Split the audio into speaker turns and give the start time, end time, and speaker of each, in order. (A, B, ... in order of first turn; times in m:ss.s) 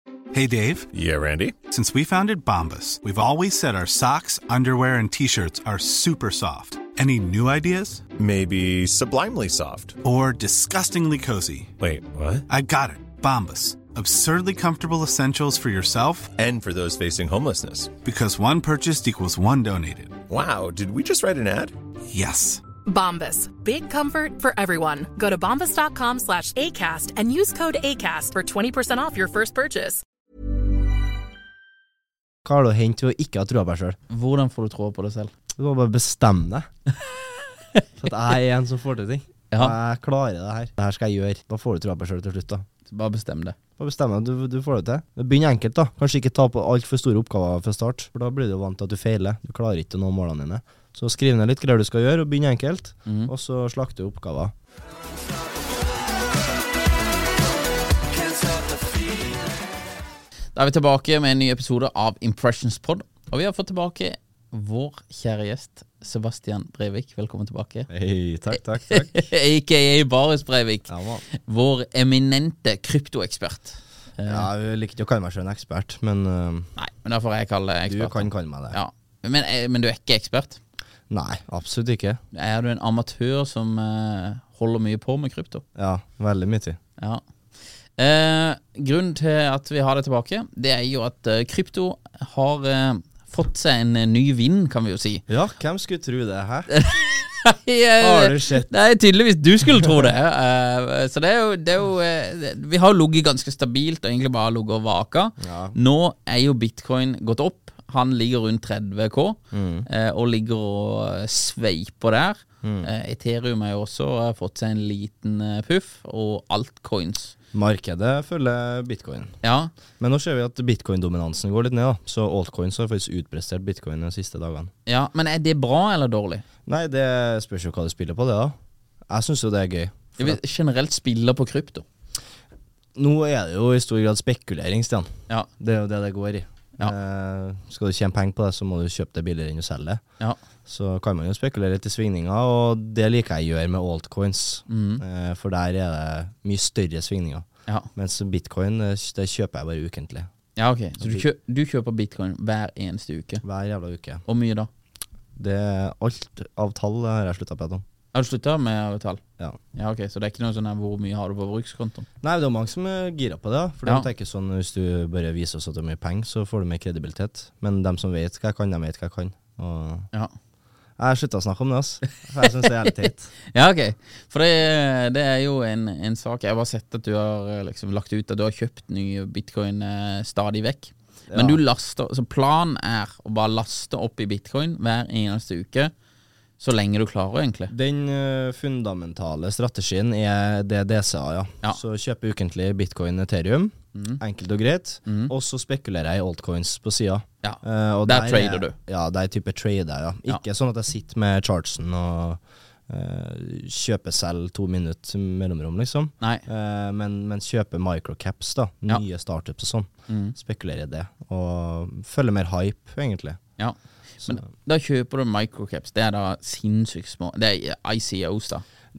0:00.3-0:00.9 A
0:00.9-0:01.6 B
0:01.7-0:08.0 A
0:08.2-0:10.0 B
0:10.0-0:11.7 A
0:11.8-0:12.4 B
0:12.5-0:16.3 A
0:16.4-0:18.0 B
0:18.0-0:20.2 A
0:20.3-0:21.7 B
0:22.1-0:22.6 A
0:22.8-0:30.0 C
0:32.4-0:34.0 D
0:34.1-0:35.3 E
0:35.6-0:36.7 D
0:38.0-0:42.6 D
0:42.9-0:43.6 E
0:43.8-0:54.5 D
0:53.0-0:53.3 E
1:00.5-1:07.9 E
1:07.9-1:09.3 D
1:08.9-1:14.5 E
1:10.9-1:11.2 D
1:14.2-1:16.7 D
1:16.8-1:20.6 E
1:17.8-1:18.8 D
1:21.1-1:22.2 D
1:22.3-1:25.6 E
1:25.7-1:26.8 D
1:27.0-1:27.2 E
1:28.0-1:35.2 E
1:35.3-1:36.7 D
1:36.7-1:57.3 E
1:38.0-1:38.7 D
1:45.4-1:45.8 D
1:49.5-1:49.9 D
1:52.6-1:52.9 D
1:57.5-1:59.4 D
1:59.4-1:59.7 E
2:00.0-2:04.7 D
2:04.8-2:06.4 E
2:06.7-2:08.6 D
2:09.1-2:10.4 D
2:10.2-2:11.8 E
2:12.9-2:20.0 D
2:20.6-2:30.3 D
2:24.7-2:25.0 E
2:30.6-2:33.4 E
2:31.0-2:31.2 D
2:33.4-2:34.2 D
2:34.2-2:34.7 E
2:35.4-2:37.8 D
2:38.1-2:39.2 E
2:39.7-2:42.1 E
2:42.2-2:50.1 D
2:51.0-2:53.3 D
2:53.4-3:05.9 E
3:01.3-3:01.6 D
3:06.6-3:07.7 E
3:07.7-3:33.4 D
3:13.9-3:14.2 E
3:15.0-3:15.3 E
3:17.4-3:18.8 E
3:26.2-3:26.4 E
3:30.1-3:30.4 E
3:33.6-3:38.6 E